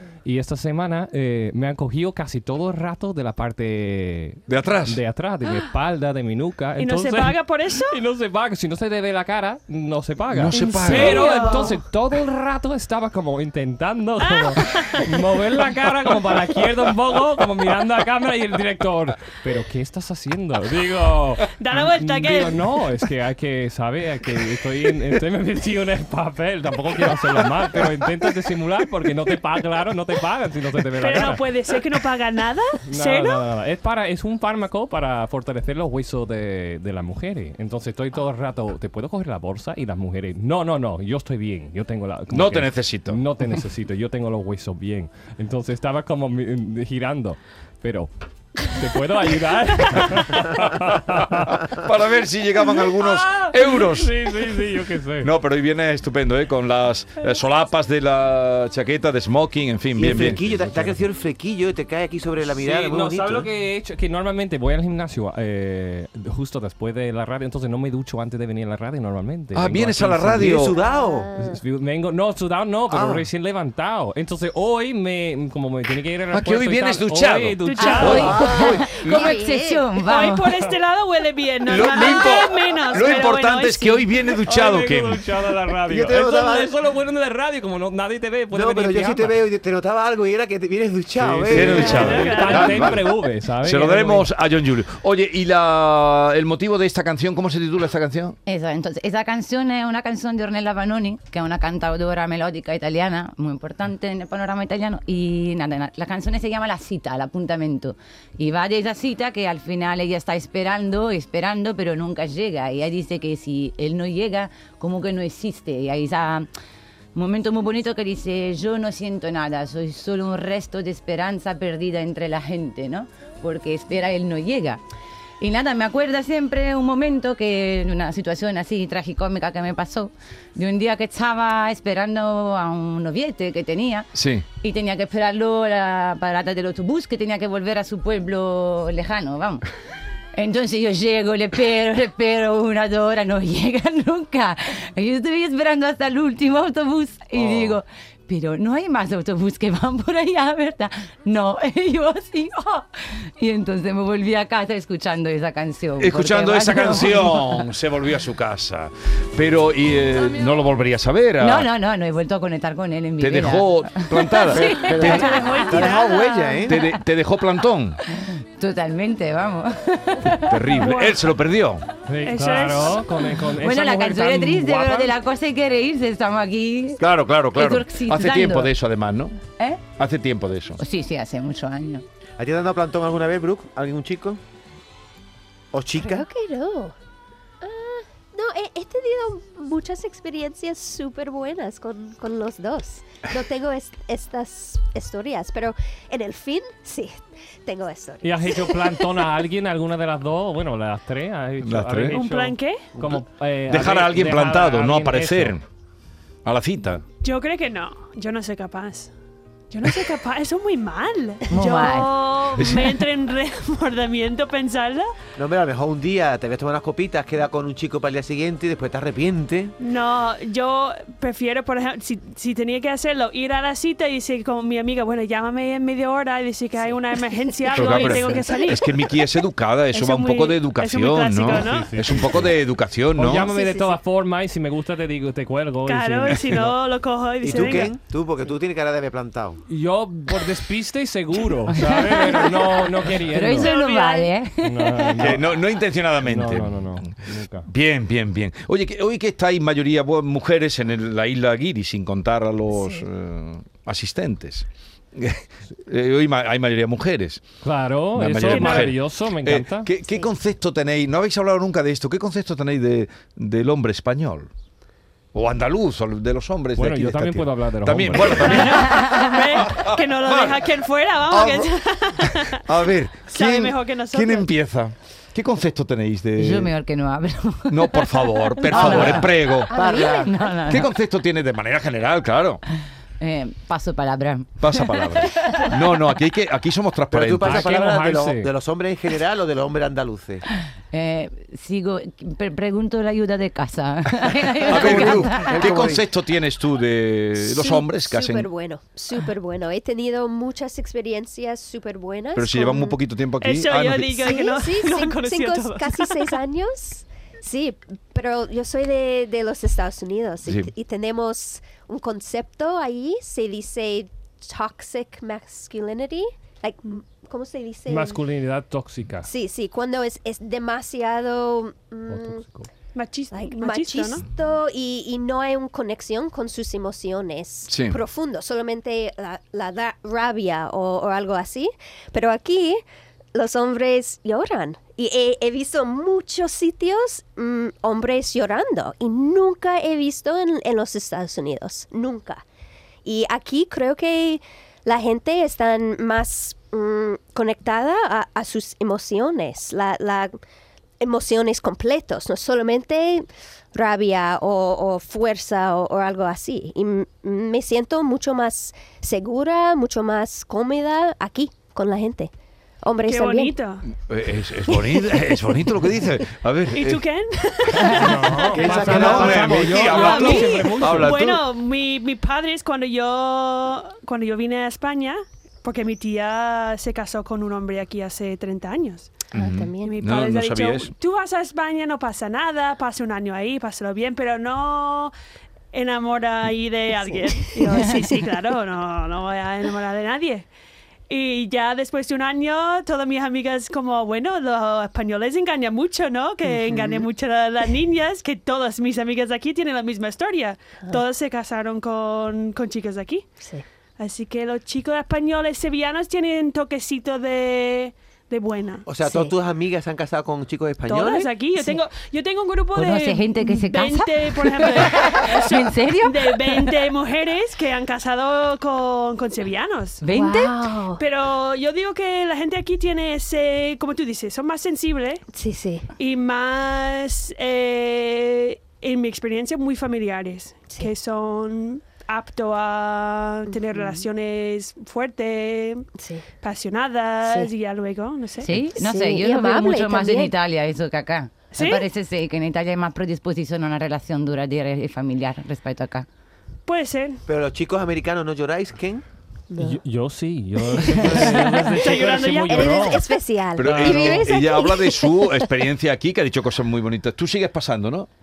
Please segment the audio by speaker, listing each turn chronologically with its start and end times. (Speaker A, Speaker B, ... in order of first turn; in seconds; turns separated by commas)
Speaker A: 0.2-31.5, Speaker B: 4.5-5.0, Speaker C: 6.8-8.0, Speaker B: 10.3-11.6, Speaker C: 10.5-11.8, Speaker C: 14.2-15.1, Speaker C: 21.6-22.6, Speaker C: 31.0-33.4, Speaker A: 32.9-51.6, Speaker B: 42.3-43.2, Speaker B: 50.0-54.3, Speaker A: 52.9-55.3, Speaker B: 55.2-60.4, Speaker D: 59.9-63.5, Speaker A: 60.1-61.0, Speaker A: 62.5-70.7, Speaker B: 69.5-70.8, Speaker D: 70.3-71.3, Speaker E: 70.8-71.6, Speaker A: 71.3-78.4, Speaker D: 72.9-73.2, Speaker B: 76.3-79.4, Speaker C: 77.7-78.5, Speaker F: 77.8-80.6, Speaker E: 78.2-79.8, Speaker C: 80.0-84.1, Speaker B: 81.7-85.2, Speaker A: 84.5-89.4, Speaker D: 85.9-86.8, Speaker D: 88.5-93.0, Speaker A: 91.2-94.3, Speaker B: 91.3-93.0, Speaker C: 91.7-92.8, Speaker B: 93.6-98.4, Speaker F: 98.5-116.5, Speaker F: 117.2-124.8, Speaker F: 125.4-139.7, Speaker B: 134.1-134.4, Speaker F: 140.4-157.7, Speaker B: 147.3-147.8, Speaker B: 156.0-161.7, Speaker F: 161.4-165.9, Speaker B: 163.2-165.4, Speaker D: 164.5-166.9, Speaker C: 165.1-166.6, Speaker B: 166.7-168.0, Speaker F: 168.1-170.8, Speaker B: 170.3-171.9, Speaker C: 170.7-171.3, Speaker A: 172.1-175.2, Speaker C: 172.3-173.1, Speaker F: 173.5-178.7, Speaker B: 177.0-179.4, Speaker F: 179.5-179.8, Speaker B: 179.9-180.8, Speaker F: 180.8-182.0, Speaker D: 182.4-184.4, Speaker D: 185.7-186.2, Speaker E: 186.0-186.9, Speaker E: 187.6-199.0, Speaker A: 198.2-205.6, Speaker B: 201.6-202.2, Speaker C: 202.1-202.8, Speaker B: 203.7-205.6, Speaker B: 206.4-207.0, Speaker C: 207.2-209.1, Speaker C: 209.7-215.1, Speaker F: 211.5-212.2, Speaker B: 212.6-213.0, Speaker D: 215.4-219.7, Speaker C: 219.8-229.1, Speaker E: 227.7-228.7, Speaker B: 227.7-233.5, Speaker C: 229.9-231.9, Speaker A: 231.5-232.6, Speaker A: 233.2-236.8, Speaker E: 233.4-234.0, Speaker C: 235.9-237.9, Speaker D: 237.4-239.6, Speaker A: 239.7-243.7, Speaker F: 241.7-245.2, Speaker C: 243.6-244.3, Speaker A: 244.6-245.4, Speaker B: 245.2-257.4, Speaker A: 246.2-247.7, Speaker E: 252.7-253.0, Speaker A: 257.6-259.9, Speaker B: 258.1-264.5, Speaker C: 258.5-258.9, Speaker B: 265.3-270.6, Speaker A: 266.8-268.7, Speaker C: 268.2-272.6, Speaker F: 268.9-269.3, Speaker B: 271.3-276.7, Speaker C: 273.3-274.5, Speaker F: 276.4-279.6, Speaker B: 277.7-279.7, Speaker D: 278.8-280.4, Speaker E: 279.7-280.6, Speaker F: 280.2-280.9, Speaker B: 280.6-282.6, Speaker F: 283.2-286.0, Speaker B: 284.6-287.8, Speaker D: 287.1-290.4, Speaker A: 287.4-288.5, Speaker F: 290.9-295.8, Speaker B: 294.7-298.5, Speaker D: 294.7-296.1, Speaker E: 297.4-303.0, Speaker B: 302.4-304.3, Speaker C: 303.4-306.4, Speaker E: 304.2-318.2, Speaker B: 310.4-310.7, Speaker A: 317.9-319.3, Speaker E: 319.2-322.4, Speaker A: 322.1-322.7, Speaker C: 322.9-324.2, Speaker E: 323.3-332.8, Speaker B: 327.7-328.0, Speaker E: 333.3-342.4, Speaker E: 343.1-350.4, Speaker E: 351.0-363.6, Speaker C: 363.1-363.9, Speaker B: 364.0-367.0, Speaker E: 364.7-365.7, Speaker C: 366.7-379.3, Speaker B: 367.7-371.4, Speaker A: 367.8-371.2, Speaker D: 368.5-370.1, Speaker E: 379.3-379.9, Speaker B: 379.3-380.9, Speaker C: 379.8-385.1, Speaker C: 385.7-390.5, Speaker E: 387.1-387.9, Speaker C: 391.1-403.3, Speaker E: 396.5-397.1, Speaker C: 404.0-408.9, Speaker D: 408.9-411.3, Speaker E: 409.1-409.3, Speaker C: 410.9-420.0, Speaker E: 411.6-411.8, Speaker F: 412.8-416.8, Speaker F: 420.0-420.7, Speaker E: 420.1-421.0, Speaker C: 421.0-425.2, Speaker E: 425.3-425.9, Speaker C: 426.0-435.9, Speaker E: 433.5-434.1, Speaker E: 436.0-436.3, Speaker C: 436.4-438.5, Speaker F: 438.4-446.1, Speaker E: 438.5-440.3, Speaker C: 441.5-441.9, Speaker C: 446.7-447.2, Speaker D: 447.3-449.0, Speaker E: 449.5-449.8, Speaker A: 449.6-453.1, Speaker E: 450.8-455.5, Speaker C: 451.8-453.0, Speaker B: 453.6-458.1, Speaker A: 453.6-454.3